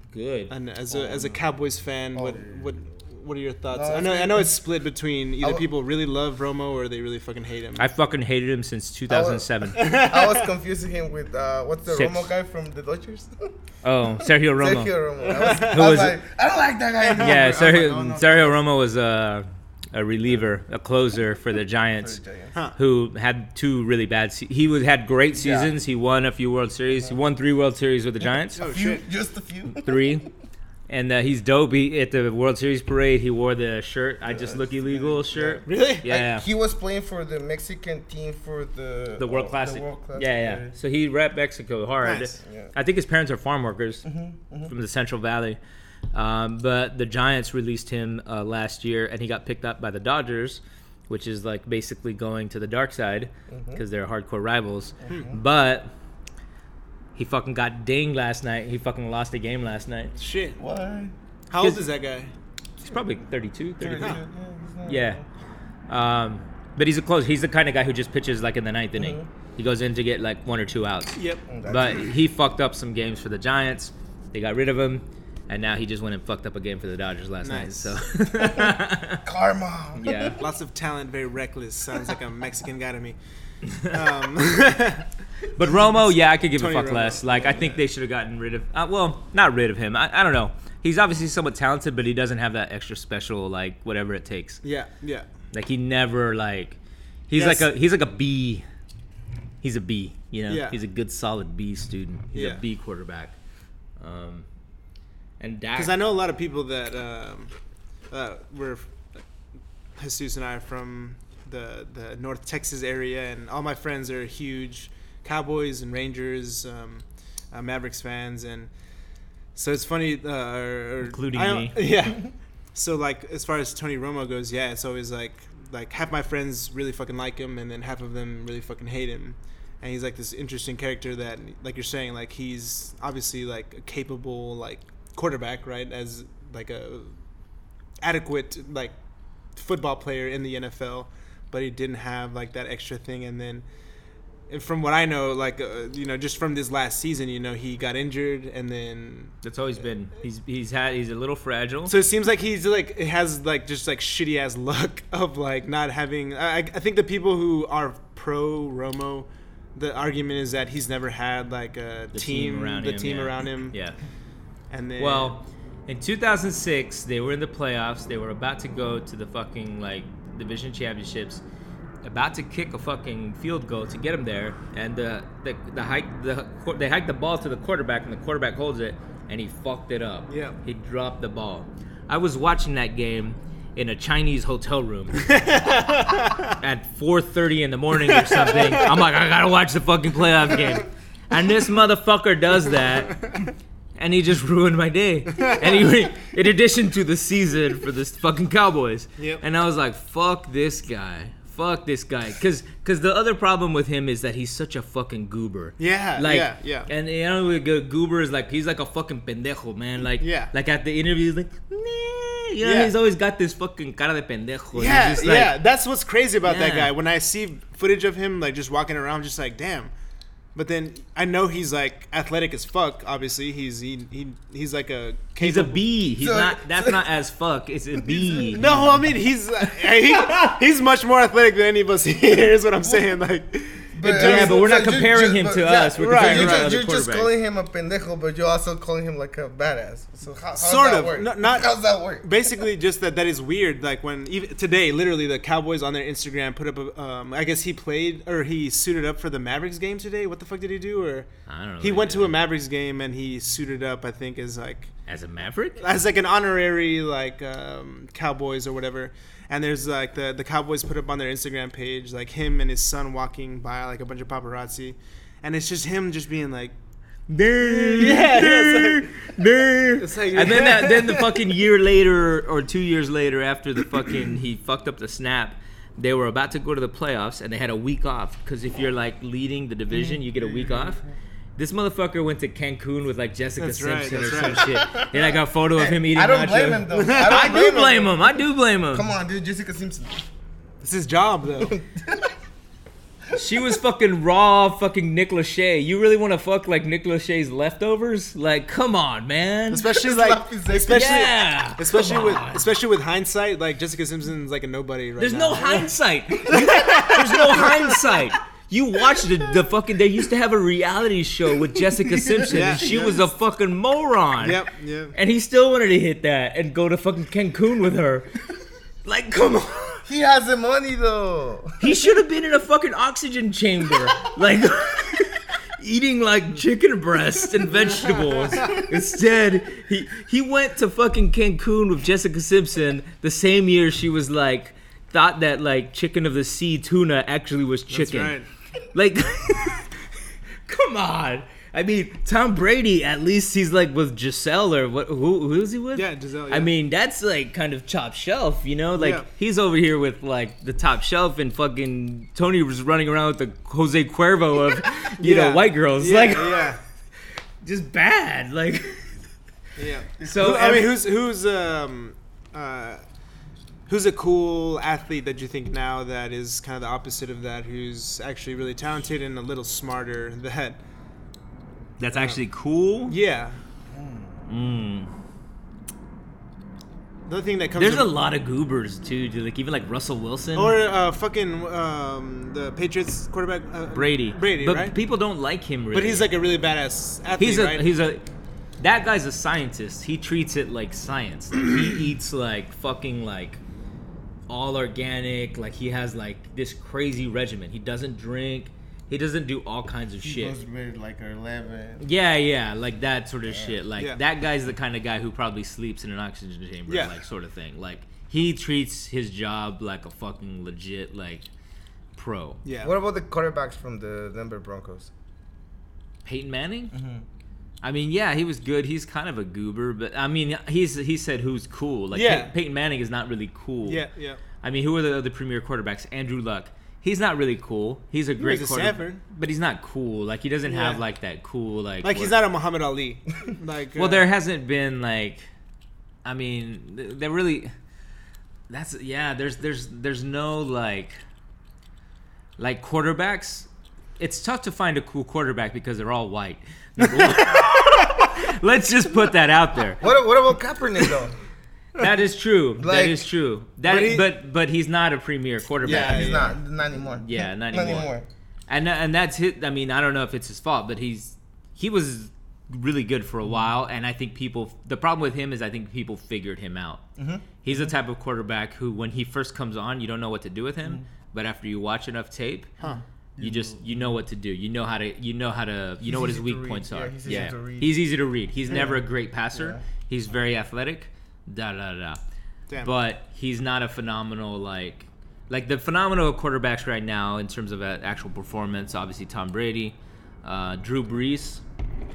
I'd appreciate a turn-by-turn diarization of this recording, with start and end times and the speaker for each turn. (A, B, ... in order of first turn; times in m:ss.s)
0:00.1-0:00.5 A
0:00.5-0:07.9 B
0:00.9-0:01.4 C
0:02.1-0:02.8 C
0:03.7-0:04.6 C
0:05.4-0:05.6 C
0:07.8-0:09.9 A
0:09.1-0:13.6 C
0:09.7-0:10.4 B
0:11.9-0:12.3 A
0:13.8-0:15.0 A
0:14.2-0:18.6 C
0:15.2-0:15.8 B
0:15.5-0:16.2 A
0:17.0-0:17.3 B
0:17.2-0:22.2 A
0:22.0-0:22.5 C
0:22.7-0:28.7 A
0:25.3-0:25.7 C
0:28.5-0:30.2 C
0:28.6-0:29.0 B
0:29.7-0:30.3 A
0:30.9-0:36.4 A
0:34.2-0:40.7 C
0:35.6-0:36.0 B
0:39.2-0:44.1 A
0:42.0-0:42.4 B
0:42.4-0:42.7 C
0:44.0-0:44.7 C
0:44.6-0:45.6 A
0:46.1-0:55.9 A
0:53.5-0:53.8 C
0:55.0-0:55.4 C
0:57.1-1:00.1 A
1:00.2-1:00.6 B
1:00.6-1:01.1 C
1:01.5-1:02.3 B
1:01.6-1:01.8 A
1:02.8-1:04.2 A
1:03.8-1:05.2 C
1:04.8-1:05.2 A
1:05.9-1:19.2 A
1:09.0-1:09.3 C
1:11.2-1:11.4 B
1:11.5-1:12.1 C
1:17.4-1:18.0 B
1:18.3-1:20.0 C
1:19.9-1:20.4 A
1:20.4-1:25.1 B
1:25.6-1:34.6 A
1:26.5-1:27.8 B
1:34.6-1:35.3 B
1:35.5-1:36.8 A
1:37.3-1:38.6 A
1:37.3-1:37.7 B
1:39.6-1:43.4 A
1:40.5-1:40.8 B
1:42.3-1:42.6 B
1:44.0-1:44.4 A
1:45.4-1:46.0 A
1:45.7-1:49.2 B
1:49.9-2:17.2 B
2:01.1-2:01.9 A
2:18.0-2:19.0 B
2:19.5-2:23.6 B
2:24.5-2:29.4 B
2:29.4-2:31.9 A
2:31.8-2:43.8 B
2:42.1-2:44.0 A
2:44.7-2:45.4 B
2:45.0-2:51.4 A
2:52.0-3:05.3 A
3:00.3-3:00.6 B
3:05.3-3:06.5 B
3:06.6-3:13.4 A
3:08.0-3:08.9 B
3:14.0-3:35.6 A
3:25.8-3:26.9 B
3:30.2-3:30.5 B
3:32.6-3:32.9 B
3:34.7-3:39.9 B
3:36.4-3:36.9 A
3:40.5-3:45.8 B
3:45.4-3:48.6 A
3:46.2-3:47.0 C
3:47.9-3:49.0 C
3:48.5-3:54.6 B
3:53.9-4:02.5 C
3:54.0-3:57.3 A
3:56.0-3:56.7 B
4:00.6-4:14.9 B
4:11.5-4:12.4 A
4:15.1-4:15.8 A
4:15.8-4:26.8 B
4:27.3-4:41.0 A
4:27.6-4:29.1 B
4:30.0-4:31.3 B
4:39.9-4:41.1 C
4:41.6-4:49.1 A
4:43.6-4:44.6 B
4:44.1-4:48.4 C
4:46.9-4:47.3 B
4:48.9-4:50.2 C
4:50.8-4:51.8 B
4:51.6-4:52.4 C
4:53.3-4:59.9 A
4:59.7-5:05.9 B
4:59.8-5:01.2 C
5:00.8-5:02.7 A
5:05.2-5:18.3 A
5:06.5-5:08.0 B
5:11.9-5:13.1 C
5:12.5-5:13.2 B
5:14.4-5:15.1 B
5:19.0-5:20.0 A
5:20.0-5:21.8 C
5:21.8-5:40.1 A
5:37.9-5:38.5 B
5:40.6-5:56.8 A
5:45.9-5:46.7 B
5:49.0-5:49.3 B
5:55.2-5:56.8 B
5:57.6-5:59.3 A
5:59.8-6:03.0 B
6:00.2-6:00.6 C
6:00.2-6:01.0 A
6:03.9-6:10.8 B
6:12.0-6:13.2 A
6:12.1-6:12.4 B
6:13.0-6:13.6 B
6:13.9-6:14.4 C
6:14.5-6:15.1 A
6:17.2-6:18.1 B
6:17.8-6:20.8 A
6:20.5-6:25.0 B
6:23.9-6:26.3 A
6:25.9-6:27.8 B
6:27.4-6:28.2 A
6:28.8-6:33.6 A
6:34.5-6:40.6 A
6:40.2-6:42.0 C
6:42.0-6:51.5 A
6:43.4-6:43.8 C
6:46.9-6:47.1 B
6:52.2-6:52.6 A
6:52.6-6:52.9 B
6:52.8-6:55.1 C
6:56.2-6:56.9 A
6:56.9-6:57.2 C
6:57.8-7:04.1 A
7:02.1-7:02.5 B
7:03.8-7:04.4 B
7:04.6-7:12.4 A
7:08.4-7:09.2 B
7:10.6-7:11.0 B
7:12.0-7:14.2 B
7:14.0-7:15.5 A
7:16.2-7:17.7 A
7:18.7-7:21.2 A
7:22.6-7:30.0 A
7:27.2-7:27.6 B
7:30.0-7:31.4 C
7:32.0-7:36.6 A
7:32.8-7:33.3 C
7:33.8-7:34.2 B
7:35.8-7:36.5 B
7:35.8-7:38.3 C
7:37.2-7:38.1 A
7:38.7-7:47.0 A
7:47.2-7:47.4 C
7:47.6-7:52.8 A
7:52.8-7:53.8 C
7:53.4-8:02.2 A
7:56.0-7:58.0 C
7:58.7-7:59.0 C
7:59.5-7:59.8 C
8:02.8-8:11.6 A